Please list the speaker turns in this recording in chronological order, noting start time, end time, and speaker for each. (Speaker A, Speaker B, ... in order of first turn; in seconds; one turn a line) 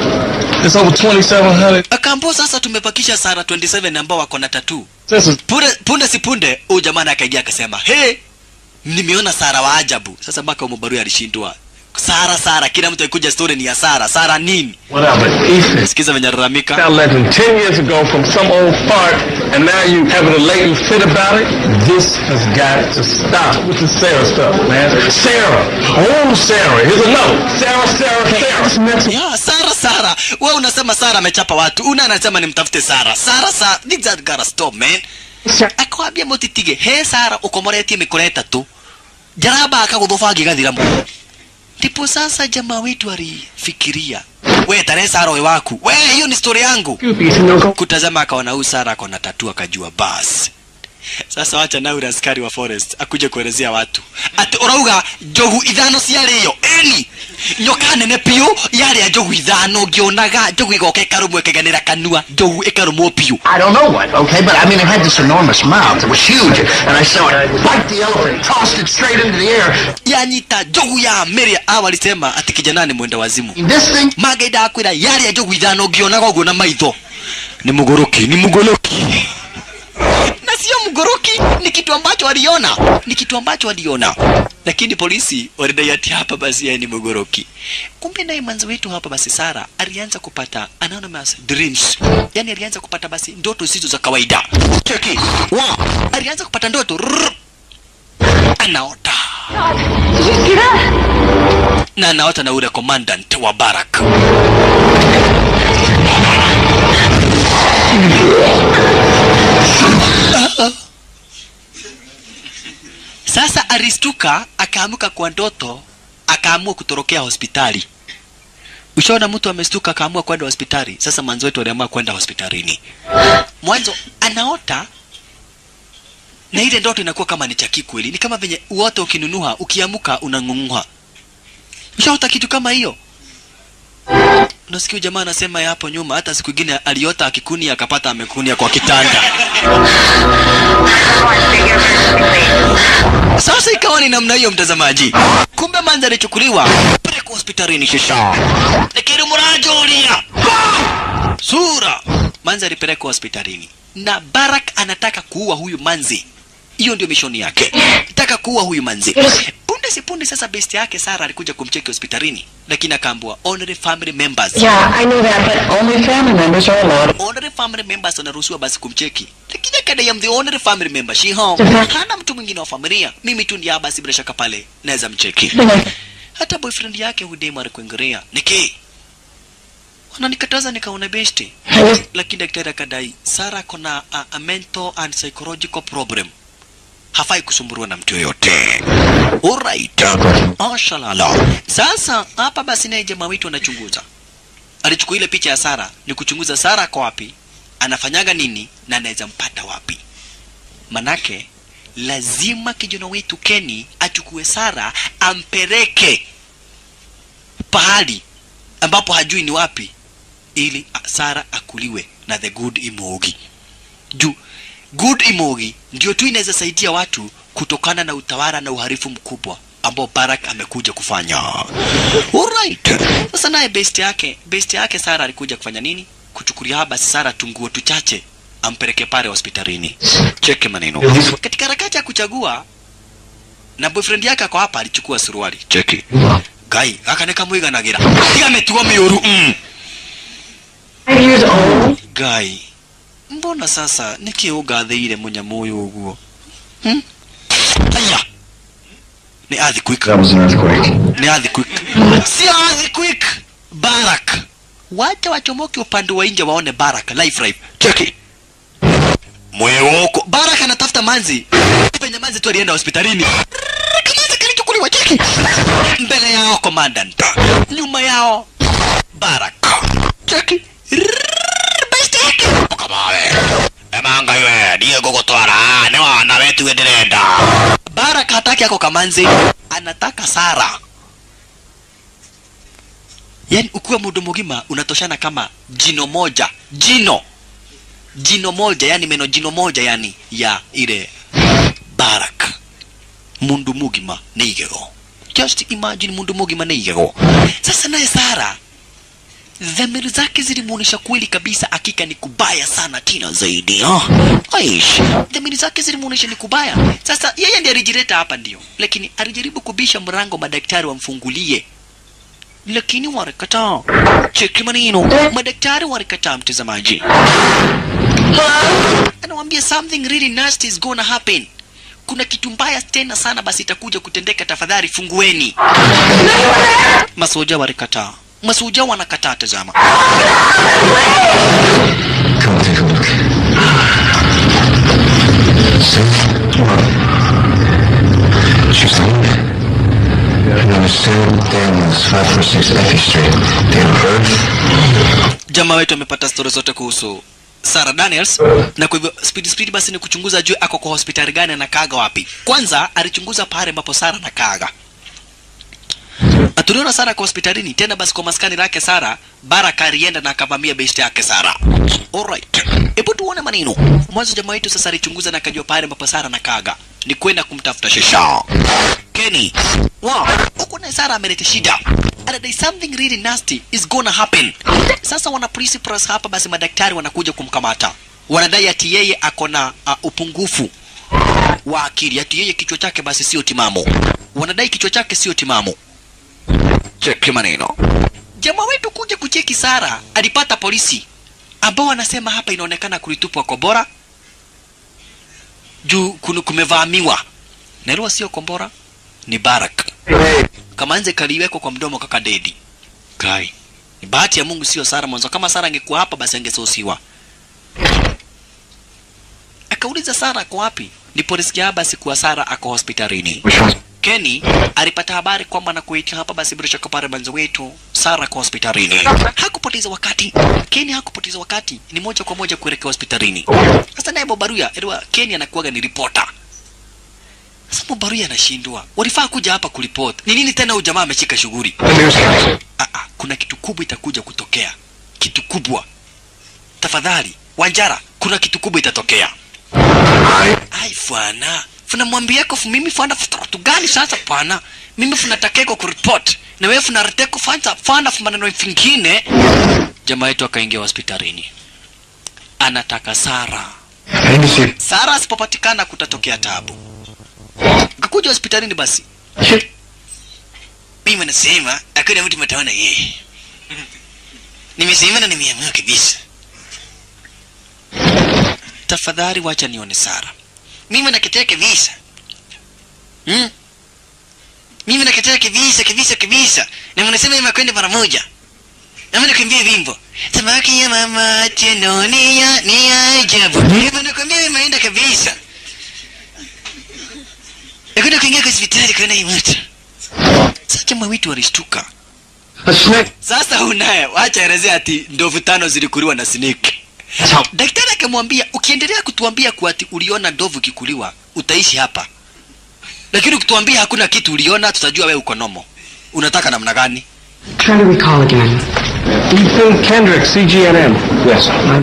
Speaker A: 0.6-1.9
Speaker B: 1.9-4.9
Speaker A: 5.1-5.4
Speaker B: 5.5-8.2
Speaker B: 8.8-14.8
Speaker A: 14.9-15.9
Speaker B: 15.8-16.8
Speaker A: 16.8-28.9
Speaker B: 29.1-35.0
Speaker B: 35.7-38.7
Speaker B: 39.4-40.9
Speaker B: 41.8-47.0
Speaker C: 47.1-47.7
Speaker B: 47.7-50.5
Speaker B: 51.3-63.4
Speaker D: 63.5-69.9
Speaker B: 70.0-73.6
Speaker D: 73.6-74.1
Speaker B: 74.2-77.0
Speaker B: 77.6-79.3
Speaker B: 80.2-87.5
Speaker B: 88.0-97.3
Speaker B: 98.6-99.4
Speaker C: 100.2-100.8
Speaker B: 102.0-104.1
Speaker B: 110.2-110.8
Speaker B: 113.3-117.9
Speaker B: 119.0-122.8
Speaker B: 123.6-124.9
Speaker B: 126.5-130.9
Speaker B: 132.0-133.0
Speaker B: 134.7-139.3
Speaker B: 143.4-148.4
Speaker B: 148.9-150.3
Speaker B: 151.4-156.2
Speaker B: 156.8-164.7
Speaker C: 164.6-167.2
Speaker B: 167.2-175.6
Speaker C: 171.6-171.9
Speaker C: 175.5-175.9
Speaker B: 176.4-178.7
Speaker B: 180.1-181.5
Speaker B: 182.1-186.3
Speaker B: 187.1-188.8
Speaker B: 189.4-194.1
Speaker B: 194.8-200.0
Speaker B: 200.9-206.2
Speaker B: 207.7-208.2
Speaker B: 208.8-209.9
Speaker B: 210.6-213.4
Speaker B: 214.9-232.7
Speaker B: 233.8-236.0
Speaker B: 236.7-239.6
Speaker C: 241.1-242.0
Speaker B: 242.0-242.6
Speaker B: 243.3-246.2
Speaker B: 247.7-248.2
Speaker B: 249.5-250.2
Speaker A: 250.1-250.9
Speaker B: 251.1-258.1
Speaker B: 259.5-268.5
Speaker B: 269.1-273.4
Speaker B: 273.9-280.8
Speaker B: 283.5-287.2
Speaker B: 288.2-291.1
Speaker B: 291.9-292.6
Speaker B: 293.4-298.6
Speaker B: 299.6-311.6
Speaker B: 312.7-317.0
Speaker B: 319.2-321.5
Speaker B: 322.1-325.6
Speaker B: 327.2-329.8
Speaker E: 332.4-333.2
Speaker E: 335.7-336.9
Speaker E: 338.7-339.4
Speaker E: 340.6-344.5
Speaker B: 345.5-354.7
Speaker B: 356.6-361.6
Speaker B: 362.1-368.5
Speaker B: 369.1-380.7
Speaker B: 381.6-385.8
Speaker B: 387.0-387.8
Speaker B: 388.4-391.1
Speaker B: 391.6-393.9
Speaker B: 395.9-397.2
Speaker B: 397.9-398.7
Speaker B: 399.3-399.9
Speaker B: 400.8-402.6
Speaker B: 403.2-403.5
Speaker B: 404.0-407.0
Speaker B: 409.7-413.4
Speaker B: 414.0-426.3
Speaker B: 427.7-431.8
Speaker E: 431.9-432.3
Speaker B: 432.8-435.9
Speaker B: 436.8-439.3
Speaker B: 440.7-449.2
Speaker B: 450.1-451.5
Speaker B: 452.6-453.7
Speaker E: 454.2-454.7
Speaker B: 454.8-456.8
Speaker B: 458.0-459.1
Speaker B: 461.1-463.2
Speaker B: 464.8-466.2
Speaker B: 468.9-470.3
Speaker B: 470.9-471.9
Speaker B: 473.3-473.5
Speaker B: 474.9-478.3
Speaker B: 479.1-485.4
Speaker B: 488.0-489.6
Speaker B: 490.7-491.9
Speaker D: 492.7-493.1
Speaker B: 493.2-496.8
Speaker B: 497.5-502.1
Speaker B: 503.1-507.1
Speaker C: 507.6-508.7
Speaker A: 509.3-511.6